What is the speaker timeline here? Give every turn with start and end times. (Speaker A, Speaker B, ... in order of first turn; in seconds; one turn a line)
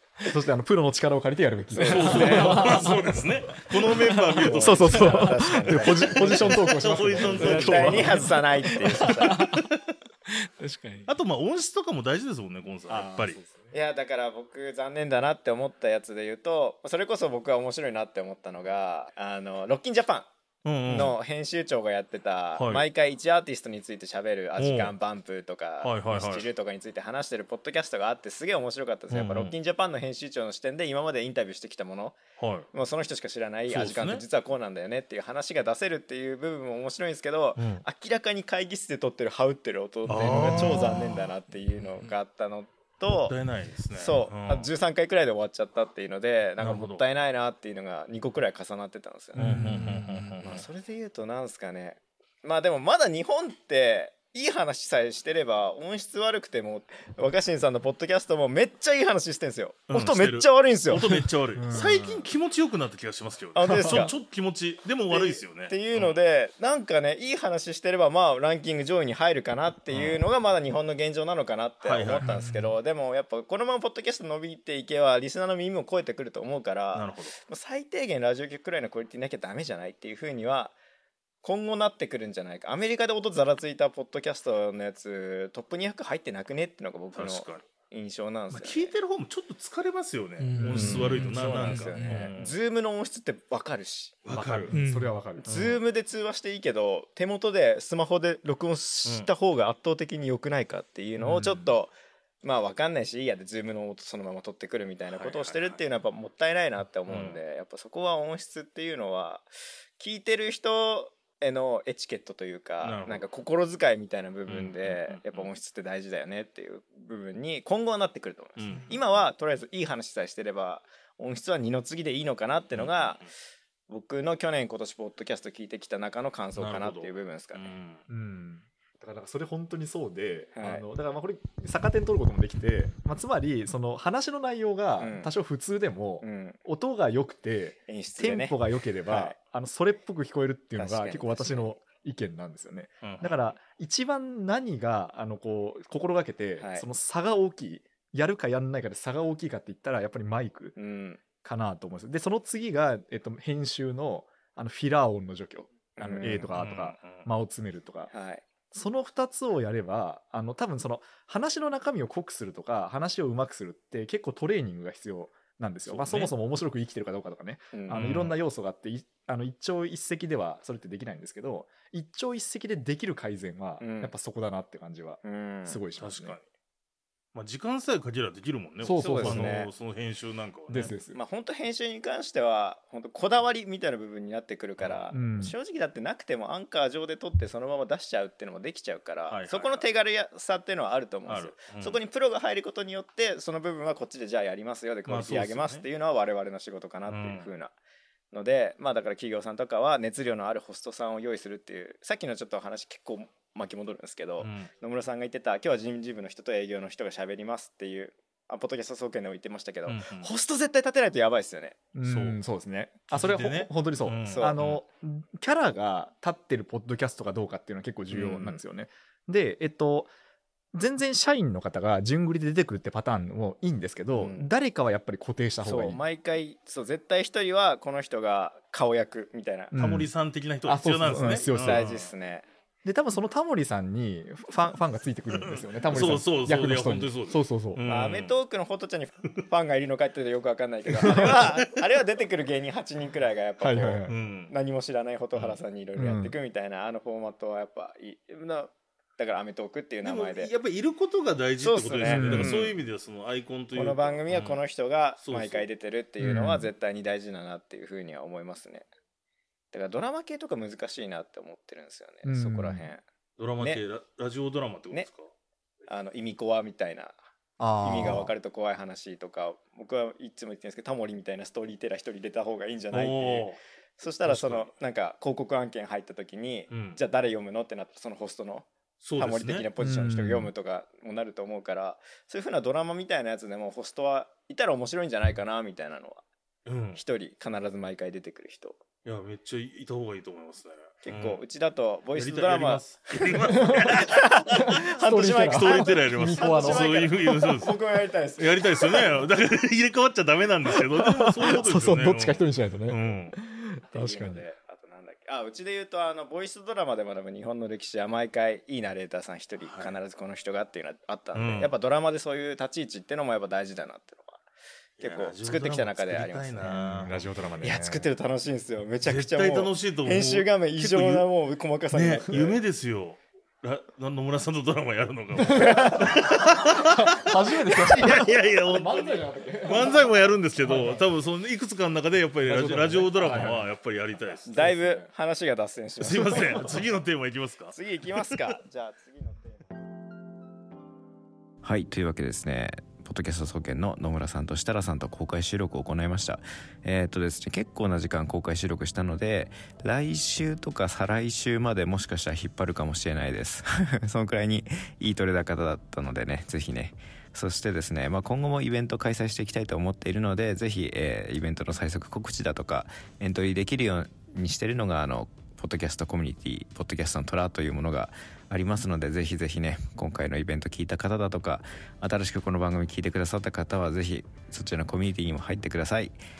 Speaker A: 0.3-3.2
Speaker B: 1.7-2.9
Speaker C: 1.8-5.3
Speaker D: 2.2-3.0
Speaker B: 4.4-6.6
Speaker A: 4.5-8.3
Speaker D: 4.9-5.2
Speaker C: 5.8-8.3
Speaker B: 7.2-9.4
Speaker D: 7.8-8.3
Speaker D: 9.0-9.6
Speaker C: 9.1-9.7
Speaker D: 10.3-11.1
Speaker C: 11.1-13.4
Speaker B: 12.9-20.3
Speaker A: 13.4-13.7
Speaker C: 20.6-21.1
Speaker B: 20.9-32.2
Speaker C: 22.6-22.9
Speaker C: 24.6-24.9
Speaker C: 25.8-26.4
Speaker C: 29.1-29.5
Speaker C: 32.4-32.7
Speaker B: 32.7-43.3
Speaker C: 33.7-34.2
Speaker C: 37.6-37.8
Speaker C: 40.1-41.1
Speaker D: 40.2-41.0
Speaker C: 43.1-44.7
Speaker B: 43.9-49.8
Speaker C: 46.6-47.0
Speaker D: 49.4-50.4
Speaker C: 49.4-50.6
Speaker B: 50.4-61.2
Speaker C: 59.9-66.2
Speaker A: 61.5-62.2
Speaker B: 63.5-64.2
Speaker A: 63.7-64.0
Speaker B: 65.1-80.8
Speaker C: 69.9-70.2
Speaker C: 71.8-72.3
Speaker D: 72.2-72.7
Speaker C: 76.9-77.3
Speaker B: 81.4-88.9
Speaker C: 87.1-87.7
Speaker C: 88.5-92.6
Speaker D: 90.4-92.3
Speaker A: 90.6-92.3
Speaker B: 90.7-94.7
Speaker C: 94.3-94.7
Speaker A: 94.3-95.5
Speaker D: 94.7-95.1
Speaker C: 95.4-95.8
Speaker B: 95.5-123.3
Speaker C: 101.2-101.7
Speaker C: 105.0-105.8
Speaker C: 107.1-107.4
Speaker C: 112.8-113.2
Speaker C: 114.5-115.5
Speaker C: 118.6-119.0
Speaker C: 122.7-123.3
Speaker B: 123.9-127.7
Speaker C: 126.5-128.0
Speaker A: 128.1-150.8
Speaker B: 130.6-130.8
Speaker B: 135.0-135.3
Speaker B: 136.2-136.6
Speaker B: 137.9-138.6
Speaker B: 139.1-139.3
Speaker B: 140.8-141.8
Speaker C: 143.0-143.4
Speaker B: 146.6-146.8
Speaker B: 150.8-151.2
Speaker A: 151.4-158.1
Speaker B: 156.0-156.5
Speaker C: 156.5-157.2
Speaker B: 158.1-158.4
Speaker A: 158.7-176.4
Speaker C: 165.9-166.3
Speaker B: 167.7-168.2
Speaker C: 167.9-168.3
Speaker B: 173.8-174.1
Speaker B: 175.2-175.8
Speaker C: 176.0-176.4
Speaker C: 177.3-180.9
Speaker A: 178.8-179.5
Speaker B: 179.0-179.7
Speaker A: 180.7-181.2
Speaker B: 181.1-197.7
Speaker C: 184.8-185.1
Speaker A: 185.1-185.5
Speaker C: 189.3-189.9
Speaker C: 191.3-192.0
Speaker C: 195.1-195.8
Speaker C: 197.1-197.5
Speaker B: 198.3-211.8
Speaker C: 204.4-204.7
Speaker C: 209.8-210.3
Speaker A: 211.9-220.1
Speaker C: 212.0-212.4
Speaker C: 213.1-214.8
Speaker B: 214.3-214.5
Speaker B: 218.1-218.6
Speaker A: 220.7-226.0
Speaker B: 224.1-224.5
Speaker B: 225.6-229.7
Speaker A: 229.7-230.1
Speaker C: 229.8-232.1
Speaker A: 230.6-231.9
Speaker B: 231.4-232.4
Speaker A: 232.8-237.8
Speaker C: 235.5-238.3
Speaker B: 237.8-250.5
Speaker A: 241.0-241.4
Speaker C: 241.0-241.4
Speaker A: 243.6-244.1
Speaker C: 244.1-244.5
Speaker C: 245.3-245.6
Speaker A: 245.9-246.3
Speaker C: 250.0-254.6
Speaker B: 251.6-252.8
Speaker A: 252.0-252.6
Speaker B: 253.7-258.9
Speaker C: 255.2-255.7
Speaker A: 256.2-256.7
Speaker B: 259.7-263.0
Speaker A: 262.2-262.9
Speaker C: 263.4-265.3
Speaker B: 265.9-267.2
Speaker A: 267.6-268.3
Speaker B: 267.8-286.2
Speaker C: 272.9-273.6
Speaker C: 274.2-274.7
Speaker C: 276.7-277.0
Speaker C: 279.0-279.6
Speaker A: 279.8-280.5
Speaker C: 286.6-287.0
Speaker B: 286.9-288.8
Speaker C: 289.0-291.4
Speaker B: 291.0-299.2
Speaker C: 292.1-294.6
Speaker A: 294.5-296.9
Speaker C: 295.3-297.8
Speaker C: 298.4-303.4
Speaker A: 301.0-304.4
Speaker B: 303.9-314.4
Speaker C: 309.6-309.9
Speaker C: 311.3-311.7
Speaker B: 315.0-317.1
Speaker C: 315.0-317.2
Speaker A: 316.6-318.1
Speaker B: 317.6-322.5
Speaker C: 319.0-321.2
Speaker C: 321.9-327.1
Speaker B: 325.5-326.2
Speaker A: 325.5-325.8
Speaker A: 326.8-331.0
Speaker C: 327.9-334.7
Speaker A: 332.4-333.7
Speaker B: 334.4-336.7
Speaker A: 334.5-335.1
Speaker C: 336.0-338.4
Speaker B: 337.7-339.6
Speaker E: 341.6-376.2